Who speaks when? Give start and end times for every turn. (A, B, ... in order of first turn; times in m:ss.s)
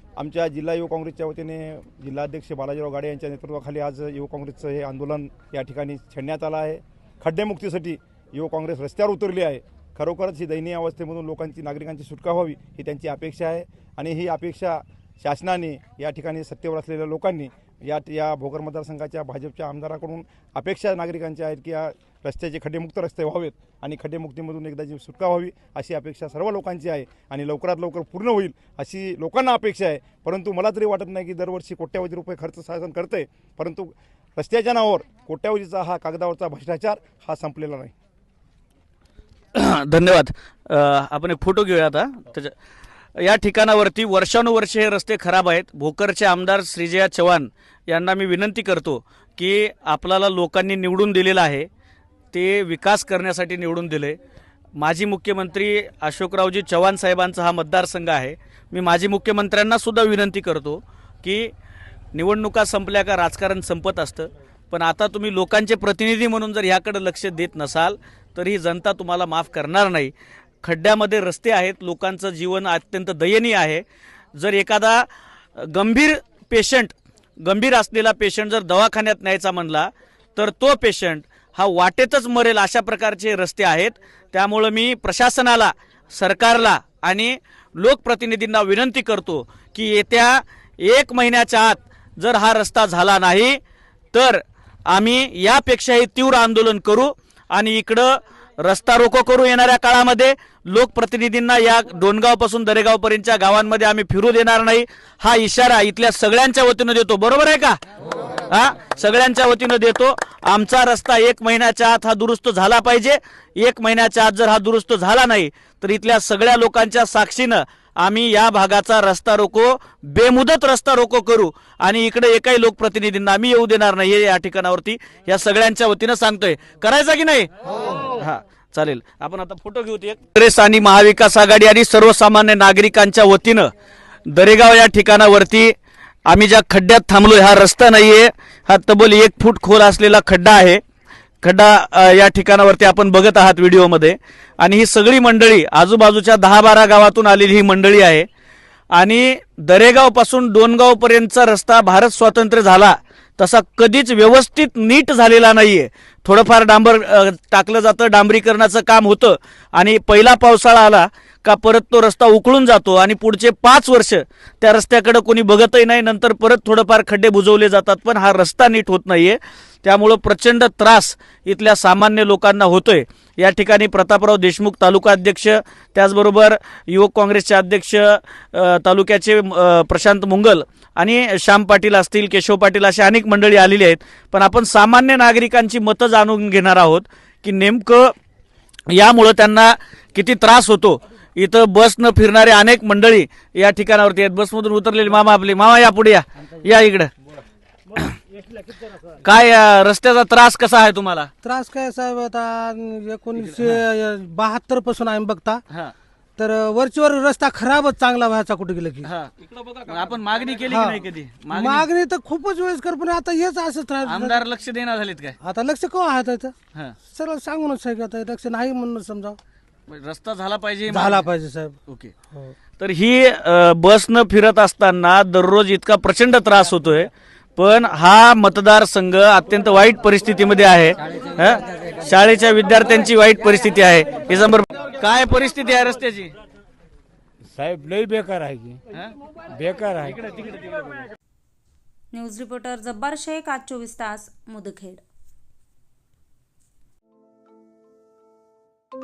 0:00.2-0:37.9 A
0:39.5-0:42.5 B
0:43.2-0:51.7 B
0:52.3-0:54.2 B
0:54.8-1:01.5 B
1:02.1-1:10.1 B
1:10.6-1:13.8 B
1:14.4-1:33.6 B
1:34.1-1:47.8 B
1:48.5-2:07.5 B
2:08.2-2:13.7 B
2:14.3-2:15.7 B
2:16.3-2:20.8 B
2:21.4-2:28.3 B
2:28.9-3:08.1 B
3:08.9-3:17.1 B
3:19.2-3:21.3 B
3:21.4-3:25.6 C
3:23.4-3:23.8 B
3:26.4-3:29.1 C
3:29.0-3:29.3 B
3:29.8-3:31.9 B
3:30.7-3:34.4 C
3:34.0-3:35.4 B
3:35.4-3:39.4 C
3:39.9-3:41.3 B
3:40.9-3:41.8 C
3:41.9-3:42.1 B
3:42.8-3:56.4 B
3:57.5-3:58.8 D
3:59.5-4:00.2 D
4:02.1-4:05.0 E